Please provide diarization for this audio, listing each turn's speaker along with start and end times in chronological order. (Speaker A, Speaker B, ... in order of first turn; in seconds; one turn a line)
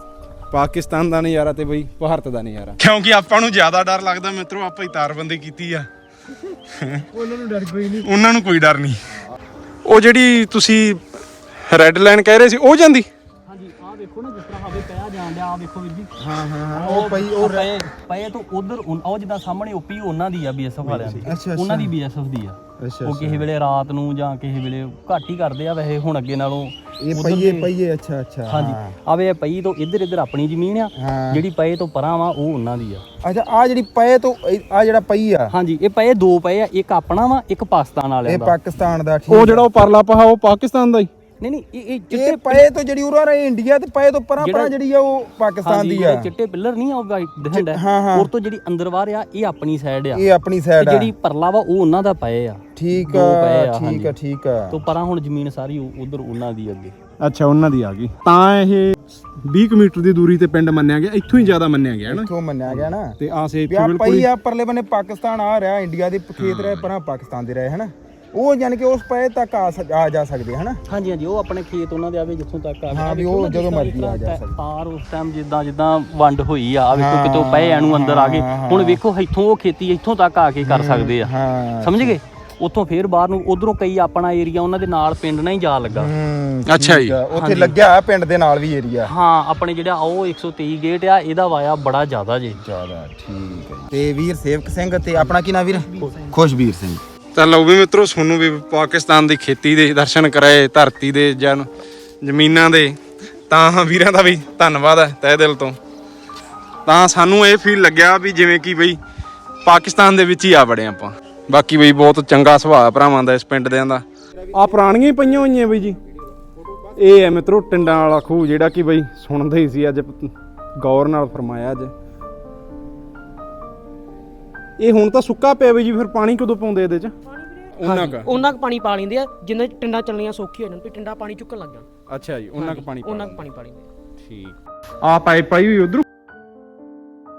Speaker A: 0.5-5.9
Speaker A: 6.8-7.1
Speaker A: 7.9-9.0
Speaker A: 9.9-11.0
Speaker A: 11.6-13.1
Speaker B: 13.5-16.1
Speaker C: 16.2-17.7
Speaker B: 16.7-27.7
Speaker C: 20.9-21.9
Speaker C: 22.8-23.5
Speaker C: 27.0-28.9
Speaker B: 28.5-33.0
Speaker C: 31.0-31.4
Speaker C: 33.2-35.5
Speaker B: 35.5-38.6
Speaker C: 38.2-39.7
Speaker A: 39.3-41.1
Speaker B: 41.4-42.7
Speaker C: 42.1-46.3
Speaker B: 44.4-44.8
Speaker B: 45.6-50.3
Speaker C: 47.5-48.3
Speaker C: 50.1-51.1
Speaker B: 50.8-54.1
Speaker C: 52.8-54.9
Speaker B: 54.7-57.0
Speaker A: 57.2-62.3
Speaker C: 62.1-63.2
Speaker B: 62.7-62.9
Speaker A: 63.2-64.3
Speaker C: 63.7-70.8
Speaker A: 66.4-66.9
Speaker B: 70.9-86.1
Speaker C: 72.9-74.6
Speaker C: 76.9-79.0
Speaker C: 80.6-82.2
Speaker C: 85.9-89.1
Speaker A: 86.7-87.2
Speaker B: 87.3-87.8
Speaker B: 89.0-92.6
Speaker C: 92.5-97.0
Speaker A: 97.3-101.7
Speaker A: 102.2-103.0
Speaker A: 103.5-105.8
Speaker A: 106.9-109.0
Speaker A: 109.6-116.0
Speaker C: 114.3-117.4
Speaker A: 117.0-121.9
Speaker A: 124.8-127.1
Speaker D: 127.2-131.9
Speaker A: 127.8-128.4
Speaker A: 132.1-133.4
Speaker D: 132.6-133.9
Speaker A: 134.2-136.1